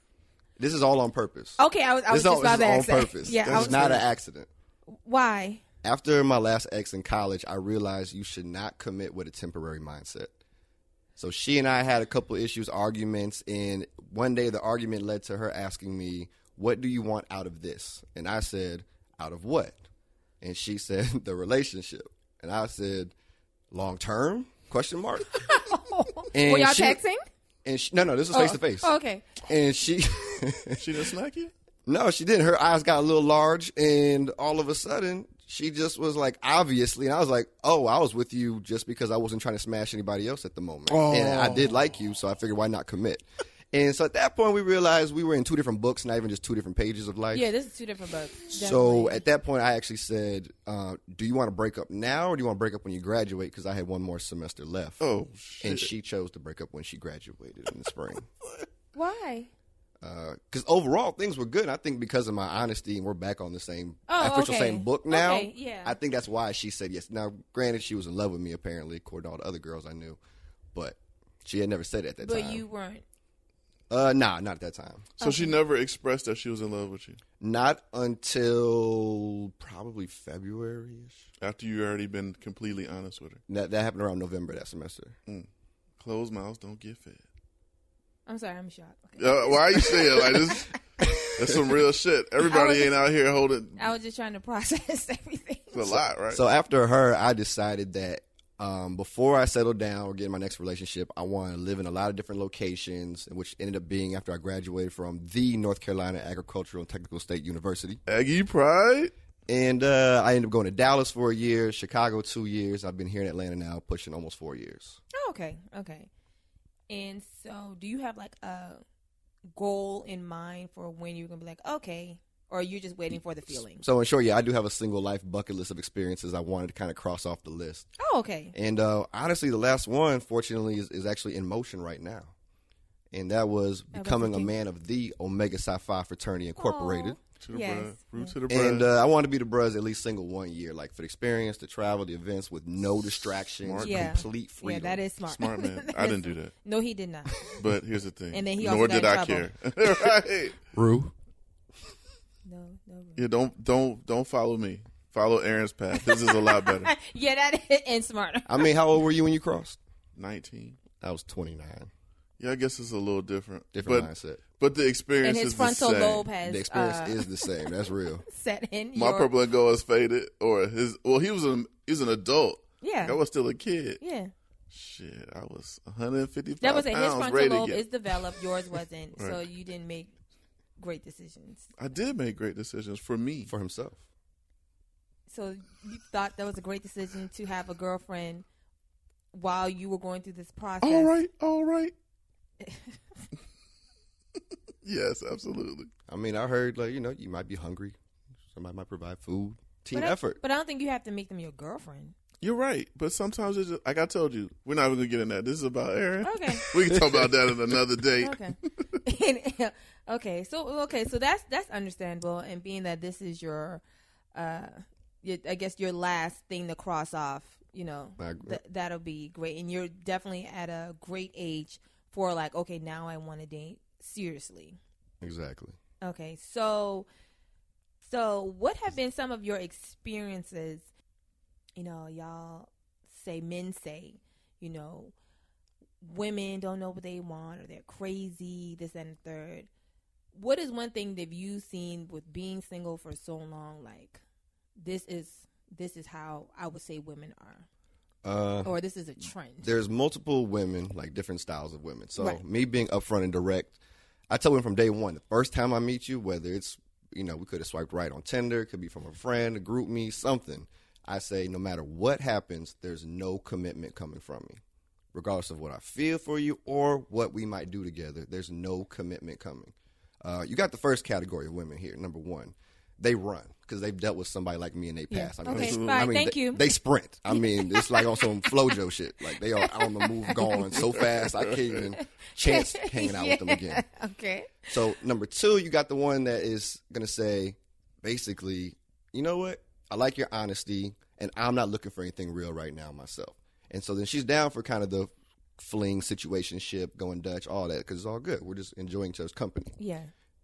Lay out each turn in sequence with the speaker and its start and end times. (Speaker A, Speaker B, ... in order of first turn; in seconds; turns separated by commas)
Speaker A: 0.6-4.5, Speaker B: 1.6-4.0, Speaker C: 3.4-4.0, Speaker B: 4.9-5.6, Speaker A: 5.8-10.4, Speaker A: 11.2-19.8, Speaker A: 20.4-23.1, Speaker A: 23.7-25.4, Speaker B: 25.3-27.2, Speaker A: 26.3-27.0, Speaker A: 27.6-31.0, Speaker B: 28.3-29.4, Speaker C: 30.8-31.5, Speaker A: 31.9-47.5, Speaker C: 40.9-41.8, Speaker B: 47.3-49.2, Speaker A: 48.5-55.0, Speaker C: 55.0-55.9, Speaker A: 55.6-58.3, Speaker B: 58.9-59.5, Speaker A: 60.0-70.2, Speaker B: 64.1-66.0, Speaker A: 70.7-72.7, Speaker B: 72.2-73.0, Speaker A: 73.9-75.1, Speaker B: 75.2-75.6, Speaker C: 75.2-77.2, Speaker A: 77.4-81.3, Speaker C: 81.4-83.4, Speaker A: 83.5-85.2, Speaker C: 86.0-87.2, Speaker B: 88.3-90.6, Speaker C: 89.2-90.7, Speaker A: 91.0-91.8, Speaker C: 91.3-93.9, Speaker B: 92.4-93.0, Speaker B: 93.8-96.0, Speaker C: 95.7-96.4, Speaker A: 96.3-108.0, Speaker C: 108.1-109.1, Speaker A: 109.5-115.0, Speaker B: 115.2-116.1, Speaker B: 116.9-118.8, Speaker B: 119.5-123.8, Speaker A: 123.8-127.9, Speaker B: 128.0-128.6, Speaker A: 128.5-132.3, Speaker A: 133.1-137.2, Speaker B: 133.9-134.5, Speaker B: 136.6-138.3, Speaker C: 137.4-138.9, Speaker A: 138.5-145.0, Speaker C: 143.3-144.2, Speaker B: 143.8-147.6, Speaker C: 145.3-146.5, Speaker C: 147.5-150.6, Speaker B: 148.3-149.5, Speaker A: 150.7-151.1, Speaker B: 152.5-153.3, Speaker C: 153.2-156.9, Speaker B: 156.0-158.7, Speaker A: 158.5-159.8, Speaker C: 160.2-160.8, Speaker A: 161.0-161.9, Speaker C: 162.4-166.3, Speaker A: 163.7-164.4, Speaker B: 165.2-167.7, Speaker A: 166.4-168.2, Speaker B: 168.2-169.3, Speaker C: 168.9-174.0, Speaker B: 172.8-173.2, Speaker B: 174.0-174.3, Speaker C: 174.7-178.3, Speaker B: 176.6-180.2, Speaker B: 180.8-181.7, Speaker C: 181.8-183.5, Speaker A: 183.5-184.0, Speaker B: 185.3-188.5, Speaker B: 189.3-191.2, Speaker C: 190.8-191.9, Speaker B: 192.6-193.2, Speaker C: 194.8-195.9, Speaker A: 196.1-197.9, Speaker A: 198.5-200.4, Speaker B: 199.9-202.2, Speaker C: 202.4-208.4, Speaker B: 206.2-206.7, Speaker A: 206.7-207.8, Speaker B: 208.2-213.8, Speaker B: 214.3-224.8, Speaker A: 218.2-218.6, Speaker A: 225.2-225.8, Speaker B: 226.0-227.1, Speaker B: 228.0-230.9, Speaker B: 231.8-235.1, Speaker B: 236.0-239.7, Speaker B: 240.3-244.2, Speaker B: 244.8-247.7, Speaker A: 248.2-248.7, Speaker B: 248.6-249.8, Speaker A: 249.6-253.8, Speaker B: 252.2-252.4, Speaker A: 254.3-264.6, Speaker A: 265.1-283.8, Speaker B: 275.1-276.7, Speaker C: 275.5-276.0, Speaker B: 277.3-278.8, Speaker B: 279.4-281.1, Speaker C: 281.0-281.9, Speaker B: 281.9-284.8, Speaker A: 284.7-299.8, Speaker B: 299.8-300.1